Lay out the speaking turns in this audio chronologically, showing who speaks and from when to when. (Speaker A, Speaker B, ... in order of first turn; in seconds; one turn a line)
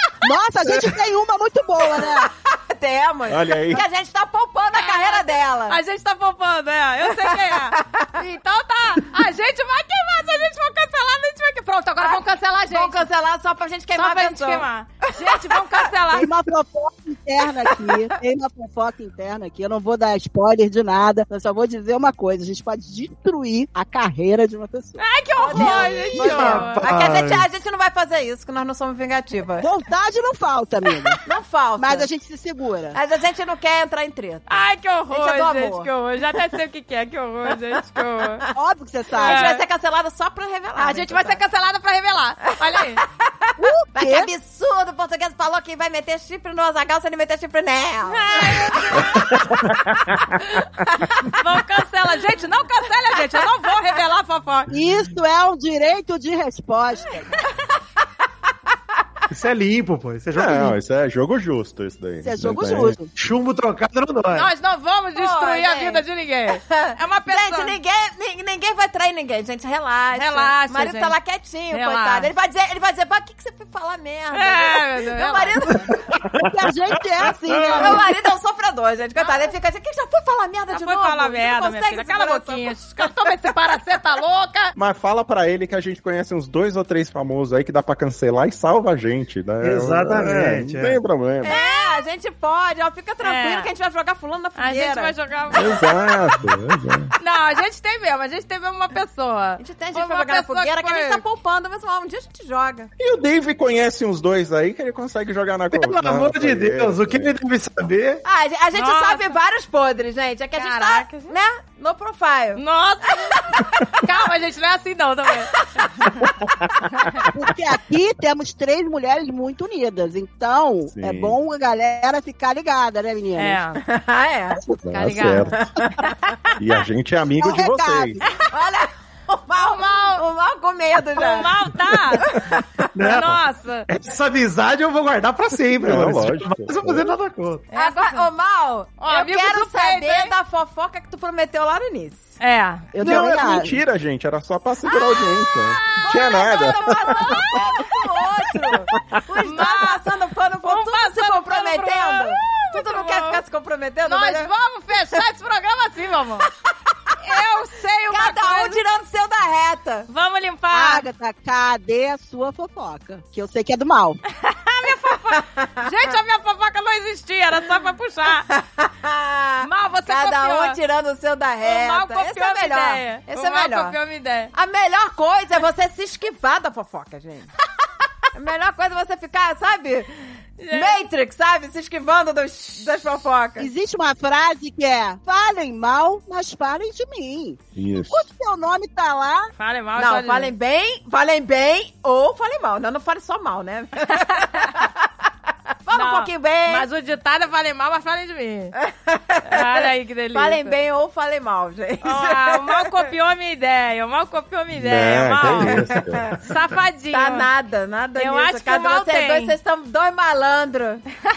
Speaker A: 0.2-2.3
Speaker B: 2.2-5.8
Speaker C: 3.3-3.8
Speaker D: 4.7-13.1
Speaker B: 7.2-8.1
Speaker B: 12.0-15.6
Speaker D: 13.9-16.3
Speaker A: 16.1-25.0
Speaker B: 17.7-17.9
Speaker D: 25.0-26.8
Speaker B: 25.4-29.6
Speaker E: 25.6-27.4
Speaker A: 29.6-31.2
Speaker B: 31.2-32.1
Speaker A: 31.8-33.0
Speaker B: 32.9-35.9
Speaker D: 34.5-38.4
Speaker A: 38.5-39.5
Speaker B: 39.2-41.4
Speaker D: 39.2-39.6
Speaker D: 40.8-43.0
Speaker A: 43.6-44.3
Speaker B: 43.9-49.0
Speaker D: 48.1-49.3
Speaker C: 49.2-50.2
Speaker B: 51.0-51.3
Speaker D: 51.2-54.7
Speaker A: 54.7-57.3
Speaker E: 59.3-60.8
Speaker C: 60.3-63.0
Speaker A: 62.2-63.1
Speaker E: 63.1-64.5
Speaker D: 64.3-67.8
Speaker B: 65.1-75.9
Speaker D: 70.1-71.2
Speaker D: 71.7-72.3
Speaker D: 74.3-75.8
Speaker A: 76.4-78.0
Speaker C: 77.5-78.0
Speaker B: 77.7-82.7
Speaker D: 79.2-79.5
Speaker D: 80.7-84.7
Speaker C: 84.8-91.5
Speaker E: 89.6-91.0
Speaker B: 91.4-95.1
Speaker D: 91.4-92.0
Speaker D: 93.2-93.7
Speaker D: 94.6-96.1
Speaker C: 95.5-97.1
Speaker D: 97.2-101.2
Speaker B: 99.6-102.9
Speaker C: 103.0-107.3
Speaker E: 105.7-108.2
Speaker B: 108.2-112.6
Speaker D: 108.7-109.4
Speaker D: 110.5-111.3
Speaker D: 112.5-115.9
Speaker B: 113.5-114.0
Speaker B: 115.8-116.2
Speaker C: 116.2-117.3
Speaker A: 117.3-123.6
Speaker C: 120.9-121.3
Speaker D: 123.4-123.8
Speaker B: 123.8-124.6
Speaker C: 124.7-125.7
Speaker D: 124.9-125.6
Speaker B: 125.5-126.1
Speaker C: 126.6-128.2
Speaker A: 127.4-128.2
Speaker B: 128.5-131.7
Speaker D: 129.6-130.2
Speaker D: 131.2-132.3
Speaker B: 132.2-132.8
Speaker E: 132.9-137.7
Speaker D: 133.0-133.9
Speaker C: 135.7-137.1
Speaker D: 137.7-138.3
Speaker B: 137.7-142.3
Speaker D: 139.0-140.3
Speaker D: 142.4-142.9
Speaker A: 142.9-143.8
Speaker C: 143.0-147.3
Speaker D: 145.1-147.8
Speaker B: 145.9-154.5
Speaker D: 149.4-150.0
Speaker D: 150.6-153.4
Speaker D: 154.0-156.5
Speaker D: 157.2-158.8
Speaker B: 158.1-160.1
Speaker D: 160.1-161.1
Speaker A: 160.7-164.2
Speaker D: 164.4-168.4
Speaker B: 165.3-165.7
Speaker B: 168.5-173.9
Speaker D: 169.6-170.8
Speaker D: 171.6-174.5
Speaker B: 174.5-177.5
Speaker B: 178.3-180.1
Speaker D: 180.6-181.0
Speaker B: 180.7-183.7
Speaker A: 183.6-189.5
Speaker C: 187.8-188.2
Speaker D: 189.6-190.5
Speaker B: 190.0-195.1
Speaker D: 194.1-194.7
Speaker B: 195.8-196.9
Speaker D: 195.9-198.8
Speaker B: 198.8-202.9
Speaker D: 199.4-200.8
Speaker D: 202.0-207.5
Speaker C: 204.7-206.3
Speaker B: 205.4-206.4
Speaker B: 207.1-211.0
Speaker D: 208.2-209.5